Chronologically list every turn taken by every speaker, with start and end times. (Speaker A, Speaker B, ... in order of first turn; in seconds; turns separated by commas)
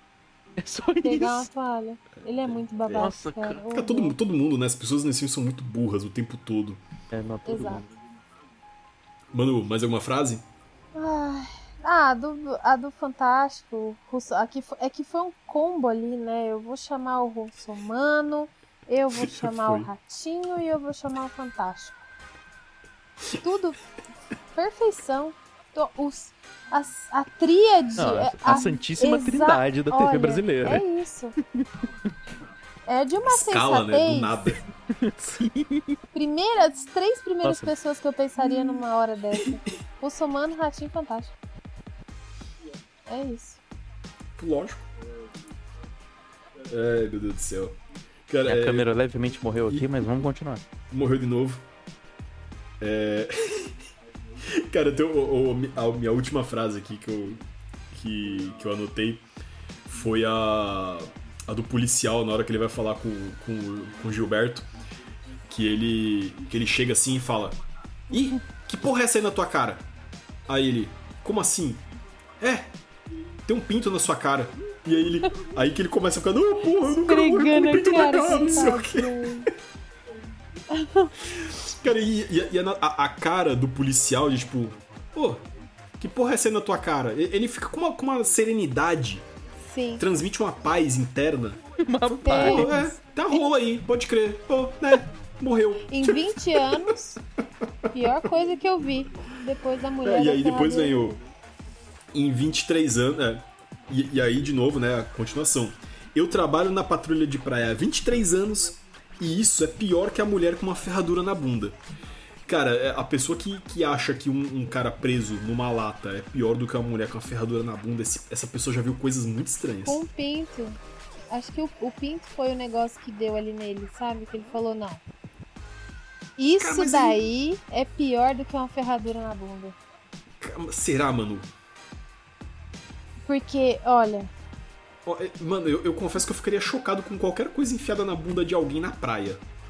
Speaker A: 0.6-1.5, Speaker B: 1.0-4.2, Speaker C: 2.8-3.1, Speaker A: 3.0-3.6, Speaker C: 3.7-6.8, Speaker A: 7.1-7.9, Speaker B: 7.5-7.8, Speaker C: 9.3-10.4, Speaker B: 10.9-22.0, Speaker C: 19.1-19.9, Speaker B: 23.4-23.8, Speaker B: 24.5-31.4, Speaker A: 28.0-30.8, Speaker A: 31.4-31.9, Speaker B: 32.9-34.5, Speaker C: 33.2-34.6, Speaker A: 34.9-36.0, Speaker B: 36.1-41.3, Speaker A: 37.4-37.7, Speaker B: 43.1-43.6, Speaker C: 44.4-44.8, Speaker C: 46.7-48.9, Speaker A: 48.4-50.6, Speaker C: 50.9-51.6, Speaker C: 52.8-53.7, Speaker C: 54.5-59.2, Speaker C: 59.9-64.7, Speaker C: 65.5-67.6, Speaker C: 68.1-69.8, Speaker C: 70.5-71.8, Speaker C: 72.4-72.7, Speaker C: 73.5-79.3, Speaker B: 76.8-79.5, Speaker B: 80.7-81.1, Speaker C: 81.3-85.4, Speaker C: 86.0-89.2, Speaker B: 89.6-90.0, Speaker C: 90.0-91.6, Speaker A: 91.8-92.7, Speaker B: 92.2-93.4, Speaker C: 92.3-96.9, Speaker B: 95.9-97.2, Speaker B: 97.9-101.2, Speaker C: 100.0-101.2, Speaker C: 102.1-111.8, Speaker C: 112.5-120.0, Speaker B: 119.8-120.8, Speaker B: 121.3-125.0, Speaker B: 126.4-129.8, Speaker C: 126.6-127.2, Speaker C: 130.4-131.5, Speaker B: 133.2-134.3, Speaker C: 135.1-139.4